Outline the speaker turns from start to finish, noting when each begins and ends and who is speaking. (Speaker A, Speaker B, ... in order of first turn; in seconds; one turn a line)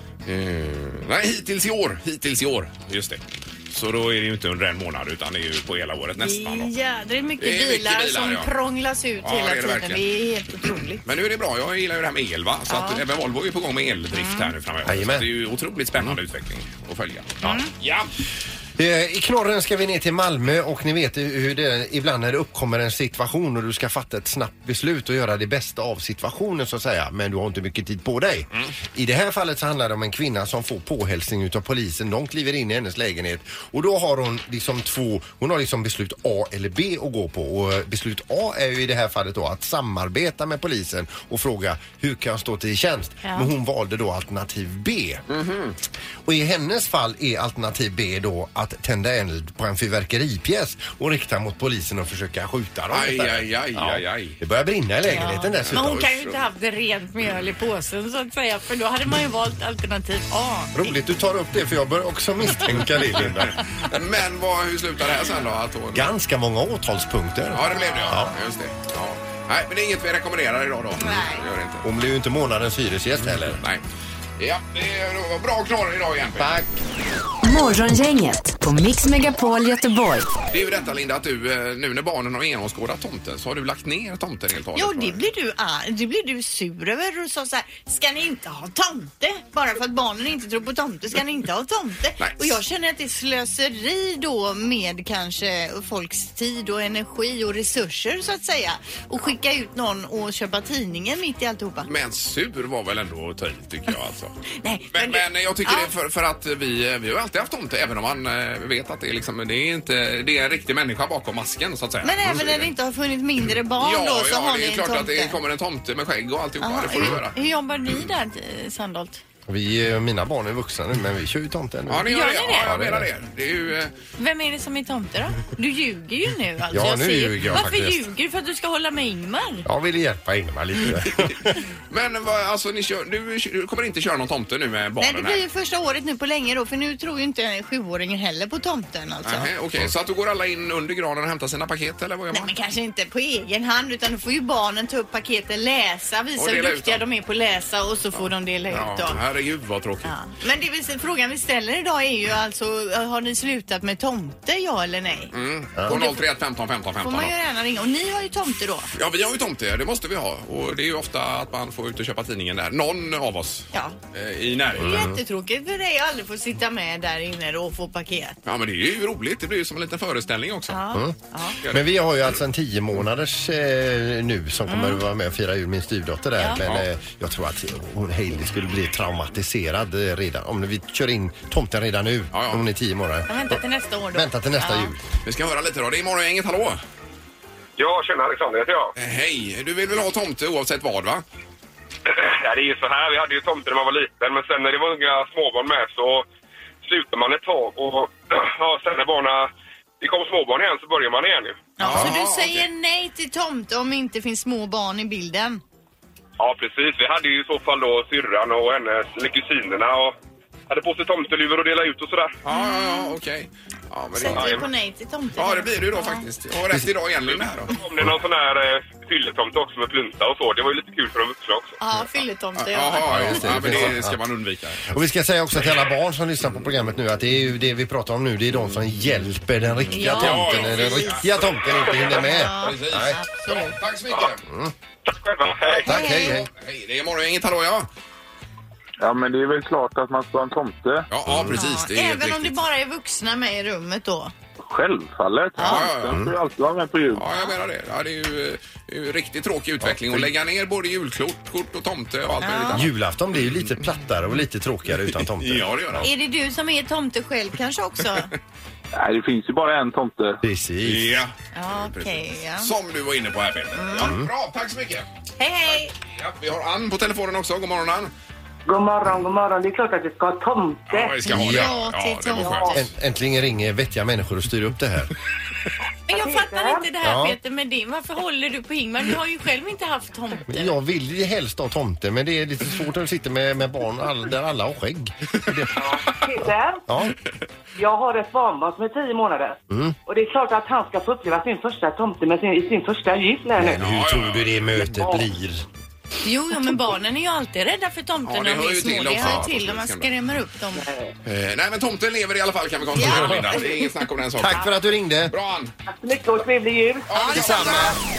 Speaker A: 0.3-6.7
Speaker B: 6.2-11.0
Speaker A: 7.4-8.5
Speaker A: 9.2-10.0
Speaker A: 11.0-18.1
Speaker B: 12.7-13.0
Speaker B: 14.1-14.5
Speaker C: 14.8-15.3
Speaker B: 17.4-17.7
Speaker C: 18.8-45.2
Speaker B: 43.2-43.5
Speaker A: 45.3-45.8
Speaker C: 46.3-56.1
Speaker A: 52.9-54.4
Speaker B: 55.1-60.9
Speaker A: 55.5-56.4
Speaker C: 60.8-63.6
Speaker A: 63.8-66.1
Speaker C: 65.9-68.3
Speaker A: 67.5-71.9
Speaker B: 71.0-71.4
Speaker C: 71.8-73.6
Speaker A: 73.5-73.8
Speaker A: 74.4-76.7
Speaker C: 76.4-76.7
Speaker D: 77.4-80.3
Speaker A: 80.5-85.2
Speaker B: 84.8-101.9
Speaker A: 92.2-92.6
Speaker A: 101.9-104.3
Speaker B: 104.6-105.9
Speaker A: 104.9-112.7
Speaker B: 112.0-115.4
Speaker A: 113.8-117.4
Speaker B: 116.6-119.2
Speaker C: 119.5-123.1
Speaker A: 121.9-123.9
Speaker B: 122.1-122.7
Speaker B: 124.2-129.7
Speaker C: 126.7-128.1
Speaker C: 129.7-131.6
Speaker A: 131.9-135.4
Speaker B: 135.0-139.5
Speaker A: 139.2-142.5
Speaker B: 142.3-149.2
Speaker A: 146.4-147.0
Speaker A: 148.7-150.1
Speaker B: 150.1-155.3
Speaker A: 155.3-157.3
Speaker B: 155.9-156.2
Speaker B: 157.0-158.9
Speaker A: 158.9-165.1
Speaker B: 164.8-168.4
Speaker C: 164.8-165.2
Speaker A: 168.5-170.8
Speaker B: 170.7-171.6
Speaker C: 171.7-183.6
Speaker B: 174.7-175.0
Speaker A: 176.6-176.9
Speaker A: 182.3-182.6
Speaker B: 183.3-184.9
Speaker C: 184.1-185.0
Speaker A: 185.2-186.8
Speaker E: 187.8-188.9
Speaker A: 189.0-191.2
Speaker E: 192.1-196.3
Speaker E: 196.8-201.7
Speaker B: 201.8-205.6
Speaker A: 201.8-202.7
Speaker E: 206.4-210.2
Speaker E: 210.7-212.4
Speaker A: 212.4-214.7
Speaker B: 212.5-213.2
Speaker B: 214.1-216.3
Speaker E: 214.3-214.7
Speaker A: 215.4-217.8
Speaker E: 217.7-221.8
Speaker B: 221.8-223.8
Speaker A: 222.6-225.0
Speaker C: 223.0-224.2
Speaker C: 224.9-233.2
Speaker B: 229.9-231.2
Speaker A: 230.0-234.4
Speaker B: 232.2-233.8
Speaker C: 234.5-234.7
Speaker E: 235.1-235.9
Speaker B: 235.8-236.4
Speaker C: 235.8-236.5
Speaker A: 236.1-237.9
Speaker F: 239.0-241.1
Speaker A: 241.1-242.6
Speaker C: 241.3-241.6
Speaker B: 241.6-244.3
Speaker F: 244.6-247.3
Speaker B: 245.6-245.9
Speaker A: 245.6-246.2
Speaker C: 246.1-246.3
Speaker A: 247.1-253.7
Speaker C: 249.8-250.3
Speaker B: 252.4-252.9
Speaker C: 252.7-256.1
Speaker A: 255.1-256.1
Speaker B: 256.0-258.3
Speaker F: 258.9-260.4
Speaker C: 260.4-261.2
Speaker A: 260.8-265.1
Speaker B: 261.5-262.7
Speaker B: 263.8-264.1
Speaker C: 264.0-264.3
Speaker B: 265.4-265.9
Speaker A: 266.1-268.1
Speaker G: 268.7-271.3
Speaker A: 270.9-272.8
Speaker B: 271.3-272.8
Speaker C: 271.3-271.8
Speaker C: 272.7-275.1
Speaker B: 276.1-280.8
Speaker G: 276.1-276.9
Speaker C: 277.0-277.4
Speaker C: 280.5-285.7
Speaker G: 285.8-286.8
Speaker C: 286.9-287.1
Speaker G: 287.8-293.8
Speaker C: 289.7-290.0
Speaker C: 293.6-295.6
Speaker A: 293.8-294.6
Speaker G: 294.8-295.3
Speaker B: 296.2-300.9
Speaker A: 298.3-300.1
Speaker G: 300.8-301.1
Speaker A: 301.2-304.6
Speaker B: 303.0-303.6
Speaker C: 304.4-305.3
Speaker A: 305.3-305.7
Speaker G: 305.9-307.1
Speaker A: 307.1-308.0
Speaker C: 307.3-307.9